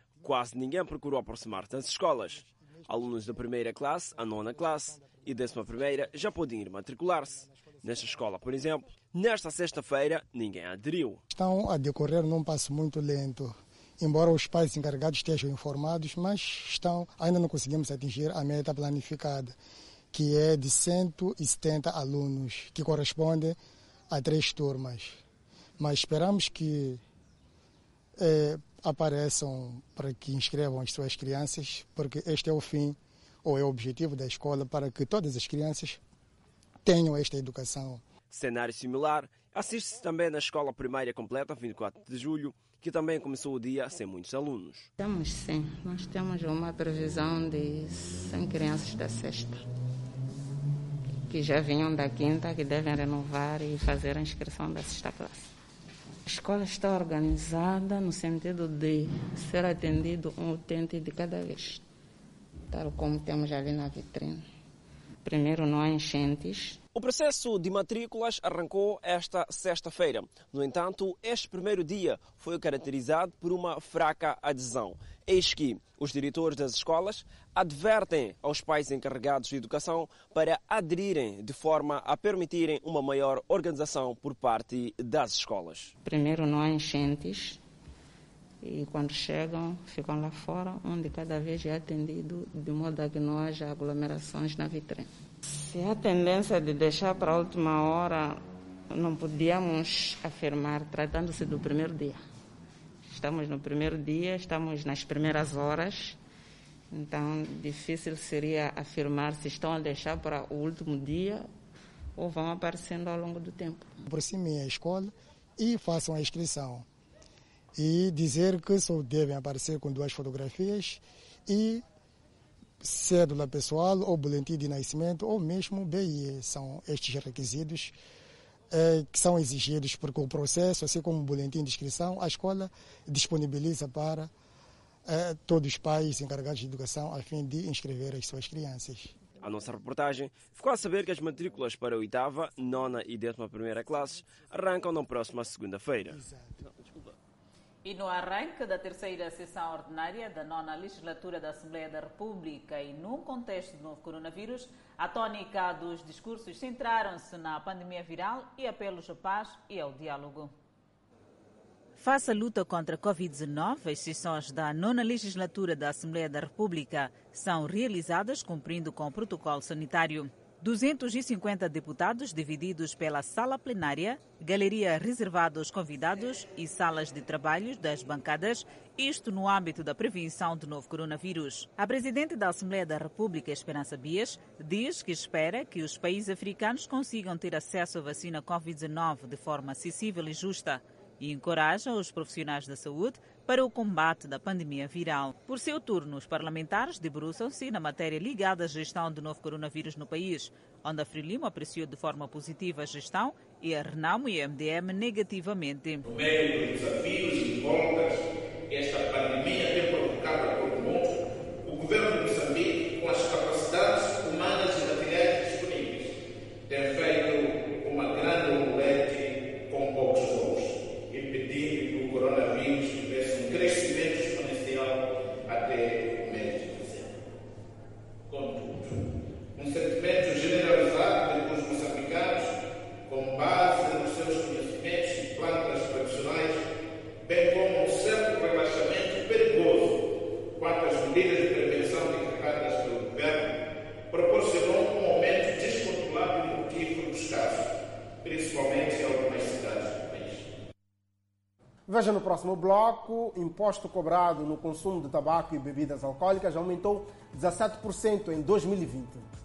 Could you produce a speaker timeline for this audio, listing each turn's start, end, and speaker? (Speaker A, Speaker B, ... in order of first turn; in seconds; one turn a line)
Speaker A: 0.2-11.2
Speaker B: 11.3-19.6
Speaker B: 20.1-23.6
Speaker B: 24.1-25.2
Speaker B: 25.8-27.0
Speaker B: 28.2-36.0
Speaker B: 36.8-38.0
Speaker A: 38.3-44.9
Speaker C: 45.0-49.6
Speaker C: 51.3-55.5
Speaker C: 56.2-61.8
Speaker C: 62.7-64.5
Speaker C: 65.2-66.8
Speaker A: 66.9-85.9
Speaker C: 86.0-87.6
Speaker C: 88.6-102.2
Speaker C: 103.1-106.2
Speaker C: 106.9-111.5
Speaker C: 112.2-113.9
Speaker B: 114.0-116.8
Speaker B: 117.8-121.8
Speaker B: 122.8-128.0
Speaker B: 128.7-134.3
Speaker B: 135.1-139.1
Speaker A: 139.4-146.2
Speaker D: 147.8-160.5
Speaker D: 162.0-206.0
Speaker E: 206.0-216.1
Speaker E: 216.7-227.1
Speaker E: 228.3-228.9
Speaker E: 229.6-232.5
Speaker E: 233.1-236.6
Speaker E: 237.3-240.0
Speaker E: 240.6-243.6
Speaker E: 244.1-247.7
Speaker E: 248.2-250.5
Speaker F: 251.9-259.2